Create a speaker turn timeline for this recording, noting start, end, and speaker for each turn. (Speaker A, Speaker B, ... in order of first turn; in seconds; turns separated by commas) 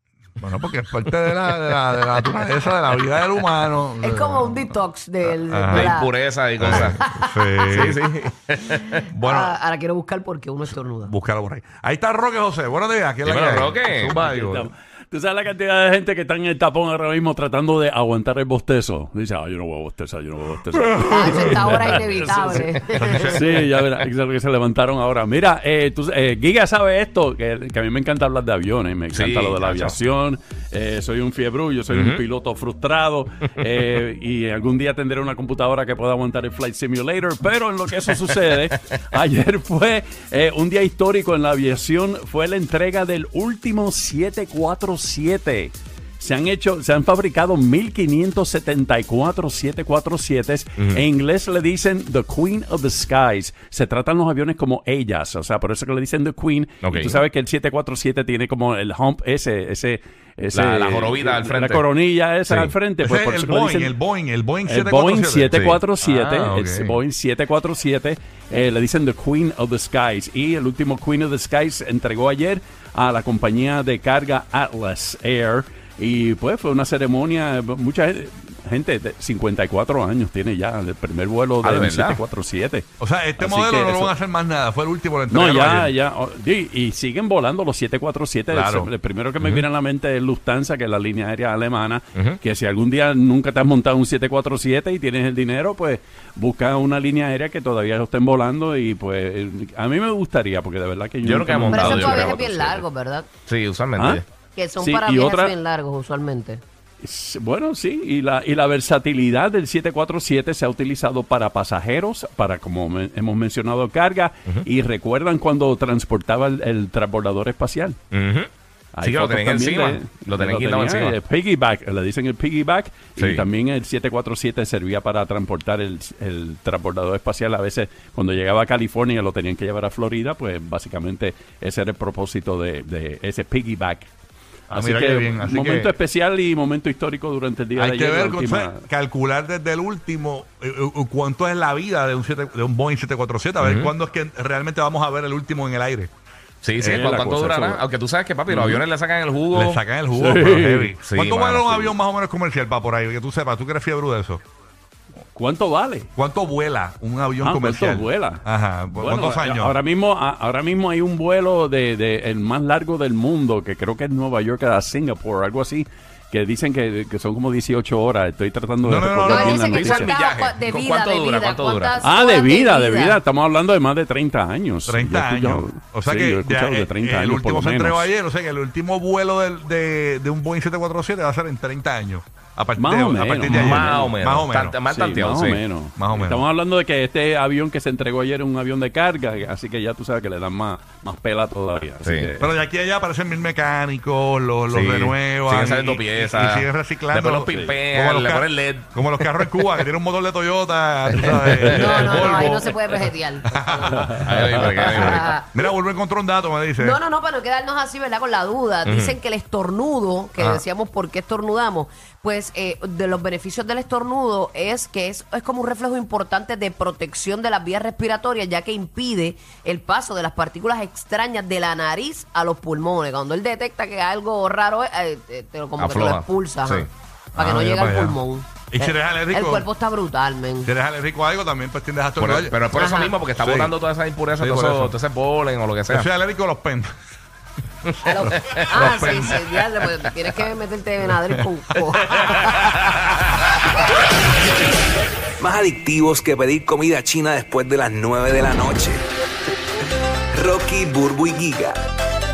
Speaker A: 0.4-4.7, Speaker B: 4.0-6.1, Speaker A: 5.3-6.0, Speaker C: 5.7-7.0, Speaker A: 6.6-8.0, Speaker B: 6.7-8.0, Speaker C: 7.7-9.0, Speaker B: 8.9-11.1, Speaker A: 9.1-9.6, Speaker A: 11.0-14.7, Speaker C: 13.2-14.2, Speaker D: 14.1-63.9, Speaker A: 21.0-21.6, Speaker B: 21.0-23.4, Speaker A: 22.9-23.5, Speaker C: 29.1-30.0, Speaker C: 31.9-32.2, Speaker C: 50.8-51.0, Speaker C: 56.8-57.2, Speaker C: 60.5-61.8, Speaker C: 62.5-62.7, Speaker A: 63.0-67.0, Speaker D: 64.7-84.1, Speaker C: 65.5-65.8, Speaker C: 81.6-82.2, Speaker A: 83.0-85.9, Speaker D: 85.3-102.6, Speaker A: 88.5-88.9, Speaker C: 101.2-102.8, Speaker B: 101.7-103.3, Speaker C: 103.5-104.2, Speaker D: 104.0-104.2, Speaker B: 104.5-106.6, Speaker D: 104.8-105.5, Speaker D: 107.0-118.0, Speaker C: 118.1-118.5, Speaker D: 119.0-134.1, Speaker C: 119.0-121.2, Speaker C: 123.2-123.5, Speaker A: 134.7-135.9, Speaker D: 134.7-138.8, Speaker A: 137.8-146.1, Speaker C: 143.6-143.9, Speaker C: 146.6-149.9, Speaker D: 146.8-147.8, Speaker D: 148.5-148.8, Speaker A: 149.5-154.4, Speaker D: 150.2-150.9, Speaker C: 151.0-152.0, Speaker D: 155.3-156.1, Speaker A: 156.2-159.8, Speaker D: 157.4-158.4, Speaker D: 159.0-170.1, Speaker A: 168.8-169.6, Speaker B: 169.2-173.2, Speaker C: 169.6-172.0, Speaker D: 172.0-178.1, Speaker A: 174.9-184.8, Speaker D: 182.8-184.2, Speaker C: 183.4-185.6, Speaker D: 184.8-192.5, Speaker A: 186.0-186.4, Speaker C: 192.0-192.3, Speaker A: 192.4-202.9, Speaker C: 194.7-199.7, Speaker D: 197.5-197.8, Speaker C: 201.1-202.0, Speaker B: 201.6-204.1, Speaker A: 203.5-207.0, Speaker D: 204.0-204.5, Speaker C: 204.2-205.3, Speaker B: 204.7-205.7, Speaker B: 206.8-230.7, Speaker C: 208.9-209.2, Speaker A: 210.4-210.6, Speaker C: 225.8-226.9, Speaker A: 227.3-229.7, Speaker A: 230.6-232.6, Speaker C: 232.2-236.1, Speaker B: 232.7-233.1, Speaker A: 233.3-233.8, Speaker A: 234.3-234.9, Speaker A: 235.9-236.9, Speaker C: 237.9-239.5, Speaker B: 238.1-242.8, Speaker A: 238.1-239.4, Speaker C: 242.2-243.3, Speaker E: 245.4-249.0, Speaker E: 250.3-251.8